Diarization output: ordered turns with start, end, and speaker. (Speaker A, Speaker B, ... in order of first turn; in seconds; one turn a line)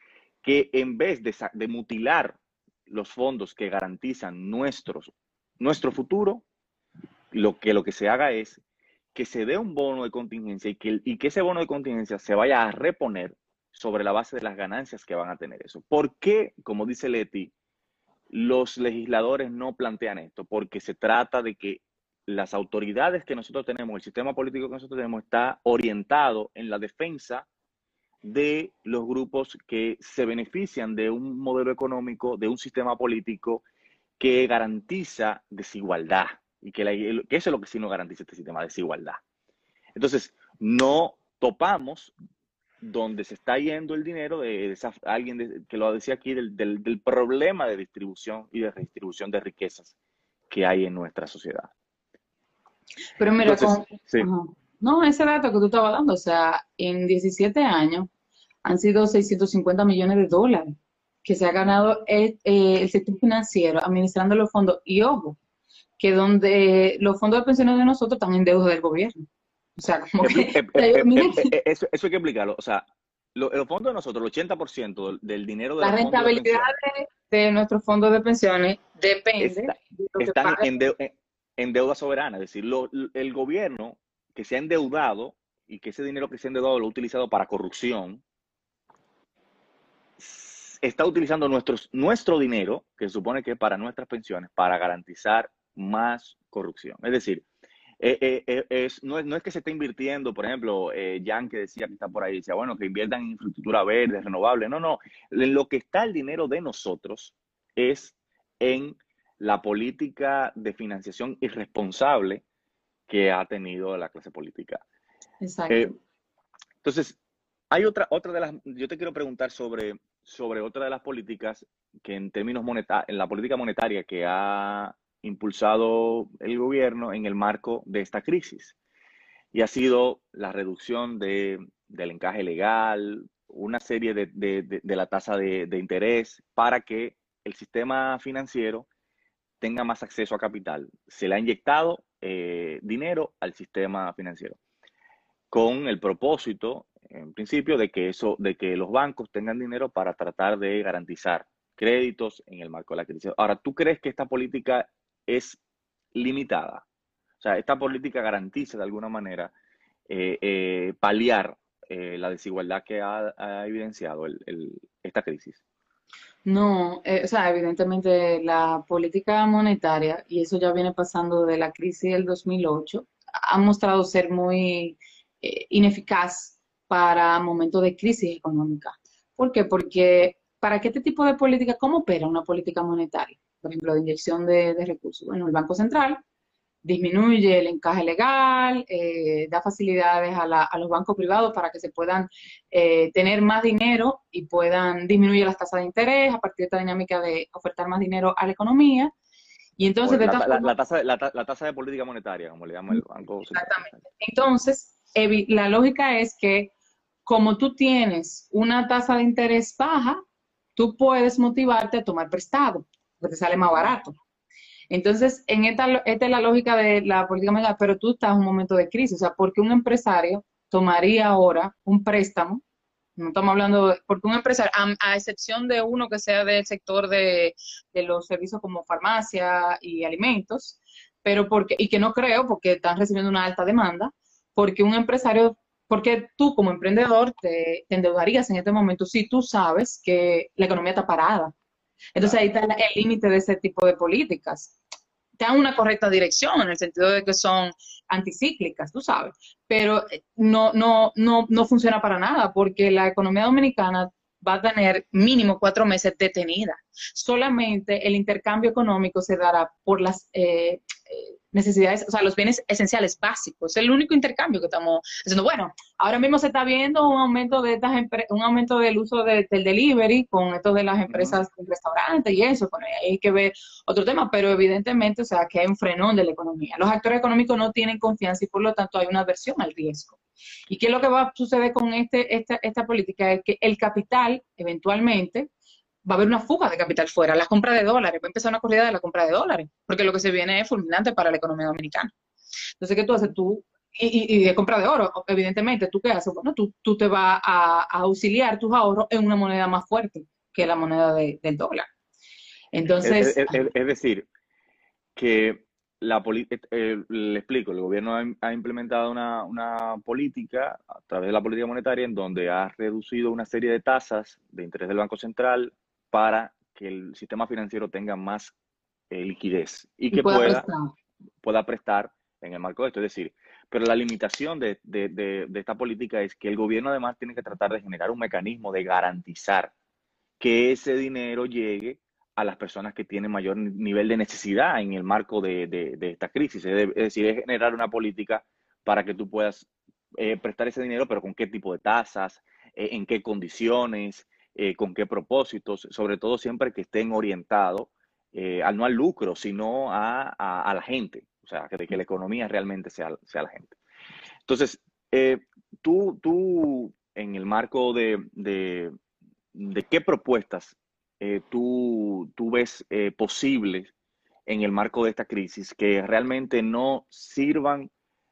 Speaker A: 0.4-6.4
Speaker A: 7.3-8.6
Speaker A: 9.1-17.5
Speaker A: 18.3-27.5
Speaker A: 28.2-33.6
Speaker A: 34.2-39.2
Speaker A: 39.9-42.1
Speaker A: 42.8-49.9
Speaker A: 50.5-51.7
Speaker B: 53.2-58.1
Speaker A: 53.4-54.3
Speaker B: 58.6-60.7
Speaker B: 61.2-65.4
Speaker B: 66.0-69.2
Speaker B: 69.8-71.5
Speaker A: 70.2-76.7
Speaker B: 75.8-80.7
Speaker A: 79.4-88.2
Speaker A: 90.2-97.4
Speaker A: 98.0-112.4
Speaker A: 113.1-114.8
Speaker B: 115.4-115.9
Speaker A: 116.8-117.2
Speaker A: 117.7-128.8
Speaker A: 129.5-138.9
Speaker A: 139.6-144.6
Speaker A: 145.5-155.6
Speaker A: 156.1-156.8
Speaker A: 157.4-159.5
Speaker A: 160.1-165.6
Speaker B: 166.4-186.2
Speaker B: 186.8-199.1
Speaker B: 199.8-200.7
Speaker A: 200.0-203.9
Speaker B: 202.9-206.7
Speaker B: 207.2-210.2
Speaker B: 210.8-214.2
Speaker B: 214.9-222.6
Speaker B: 223.2-241.5
Speaker B: 242.1-244.8
Speaker B: 245.4-280.2
Speaker A: 271.1-271.4
Speaker B: 280.7-285.5
Speaker B: 286.0-292.1
Speaker B: 292.8-301.9
Speaker B: 302.7-303.6
Speaker A: 303.0-304.3
Speaker A: 305.1-318.5
Speaker A: 319.1-320.6
Speaker B: 320.1-320.9
Speaker A: 321.4-329.7
Speaker A: 330.4-353.8
Speaker A: 354.4-358.9
Speaker A: 359.5-363.9
Speaker A: 364.4-367.9